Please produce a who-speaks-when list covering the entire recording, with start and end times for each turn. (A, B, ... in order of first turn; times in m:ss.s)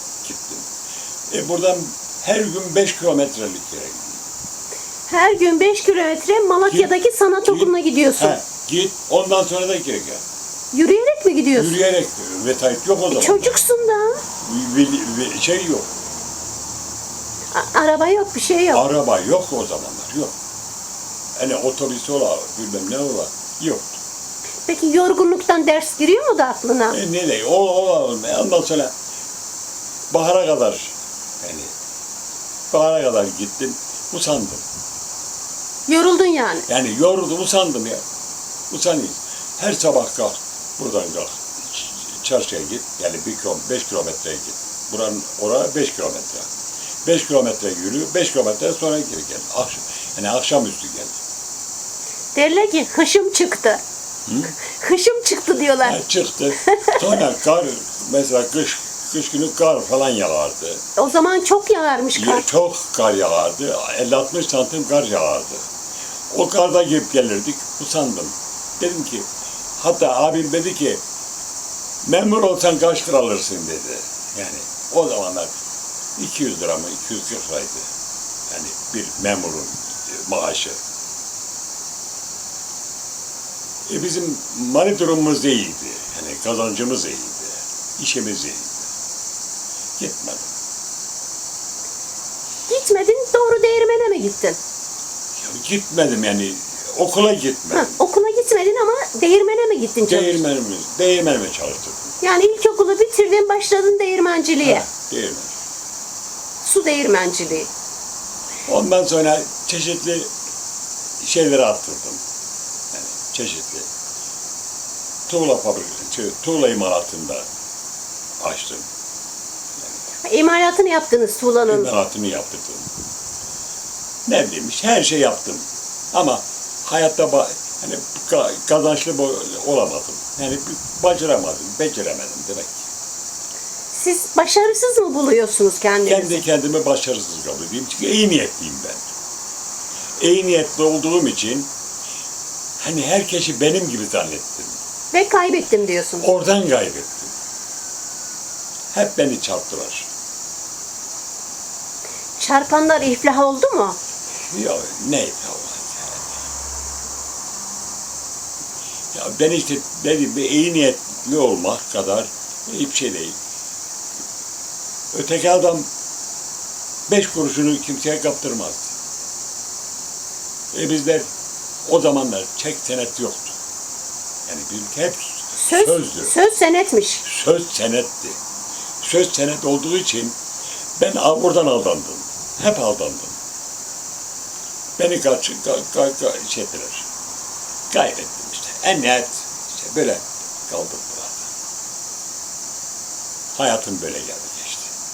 0:00.2-0:00.7 A
0:01.3-0:04.2 A
0:05.1-0:08.4 B
0:06.7-0:10.2 A
0:10.7-0:11.8 B
0:11.5-0:13.6 A
0:13.1-0:14.2 B
0:14.4-0:15.9 A
0:17.5-0:18.8 B
0:18.7-0:20.3 A
0:21.4-0:24.0 A
0:24.7-0:27.0 B
0:26.9-0:28.9 A
0:30.1-0:31.7 A
0:32.7-0:34.6 A
0:35.9-0:36.7 B
0:36.7-0:38.0 A
0:38.7-0:46.5 A
0:47.0-0:51.2 A
0:52.4-0:53.8 B
0:54.3-0:54.5 A
0:54.6-0:56.0 B
0:55.8-1:00.8 A
0:56.7-0:56.9 B
1:01.0-1:02.4 B
1:02.1-1:05.6 A
1:06.3-1:09.3 A
1:09.8-1:11.0 A
1:12.0-1:15.5 A
1:16.2-1:17.9 A
1:18.5-1:20.8 A
1:23.9-1:28.9 A
1:30.0-1:30.5 A
1:32.7-1:34.6 B
1:35.4-1:38.0 A
1:37.7-1:40.4 B
1:40.0-1:42.1 A
1:42.2-1:44.8 B
1:44.6-1:45.5 A
1:46.6-1:47.7 B
1:48.7-1:50.3 A
1:51.2-1:52.2 A
1:52.9-1:53.9 A
1:55.3-1:57.4 A
1:58.4-1:58.9 A
2:00.2-2:01.9 B
2:01.7-2:02.9 A
2:04.3-2:12.9 A
2:13.9-2:16.4 B
2:16.0-2:19.1 A
2:20.2-2:21.7 A
2:22.8-2:24.8 A
2:25.1-2:26.3 B
2:26.2-2:27.3 A
2:28.9-2:30.1 A
2:32.4-2:34.0 B
2:34.5-2:36.2 A
2:39.1-2:43.4 A
2:45.1-2:45.9 A
2:47.1-2:48.9 A
2:50.7-2:51.3 A
2:51.8-2:53.6 A
2:54.5-2:56.4 A
2:55.6-2:57.2 B
2:57.2-2:58.4 A
2:59.0-3:00.4 A
3:01.0-3:03.4 A
3:05.0-3:07.1 A
3:07.9-3:11.5 A
3:13.5-3:14.9 A